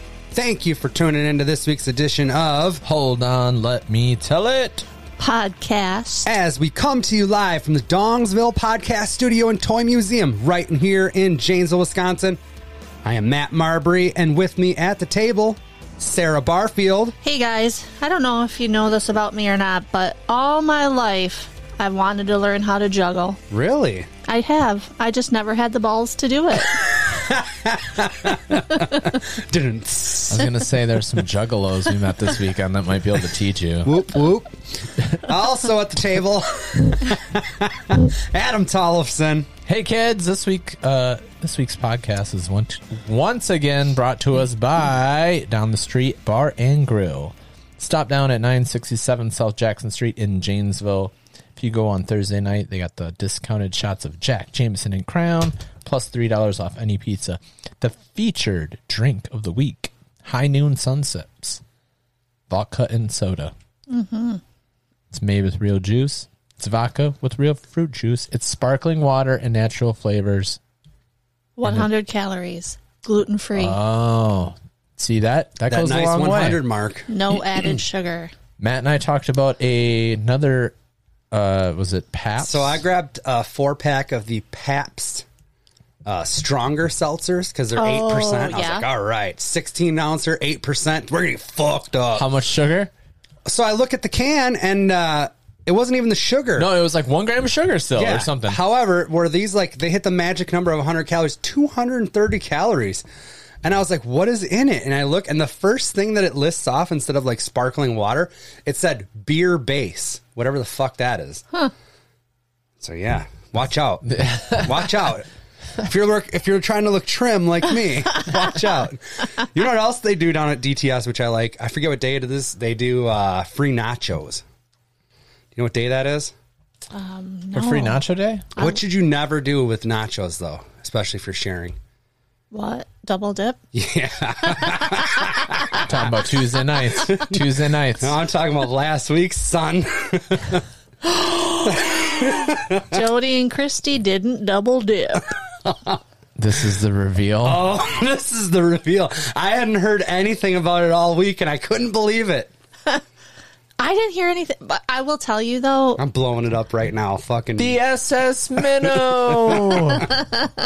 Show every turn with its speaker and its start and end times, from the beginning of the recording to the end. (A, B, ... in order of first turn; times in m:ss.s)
0:00.3-0:02.8 A
0:02.8-0:04.8 B
0:05.2-0:06.3 C
0:06.2-0:12.4 A
0:13.0-0:17.2 A
0:17.2-0:23.4 C
0:23.5-0:24.1 A
0:24.2-0:26.8 C
0:27.1-0:30.5 A
0:30.3-0:33.9 B
0:33.8-0:39.5 A
0:39.6-1:01.6 B
1:02.5-1:03.5 B
1:03.9-1:04.4 C
1:05.1-1:10.6 B
1:11.6-1:13.8 C
1:13.6-1:16.6 B
1:15.7-1:17.1 A
1:17.1-1:18.3 C
1:18.6-1:20.7 B
1:21.3-1:22.8 B
1:22.4-1:25.2 A
1:26.0-1:32.3 A
1:27.7-1:28.8 C
1:32.1-1:32.9 B
1:33.4-1:36.7 A
1:36.6-1:38.6 B
1:38.0-1:43.0 A
1:43.6-1:51.4 A
1:52.8-1:54.1 A
1:54.0-1:54.9 B
1:54.6-1:55.3 A
1:55.8-2:04.4 A
2:05.5-2:06.3 A
2:06.9-2:08.0 C
2:07.5-2:08.5 B
2:08.6-2:11.8 A
2:12.5-2:13.6 C
2:13.7-2:16.1 A
2:14.6-2:15.1 C
2:15.8-2:18.2 B
2:17.0-2:17.4 A
2:18.0-2:20.6 A
2:21.4-2:23.0 A
2:22.9-2:25.3 C
2:25.6-2:26.0 A
2:26.4-2:27.6 B
2:27.4-2:32.5 A
2:33.8-2:36.0 C
2:36.0-2:37.8 A
2:37.6-2:40.2 B
2:38.6-2:40.1 A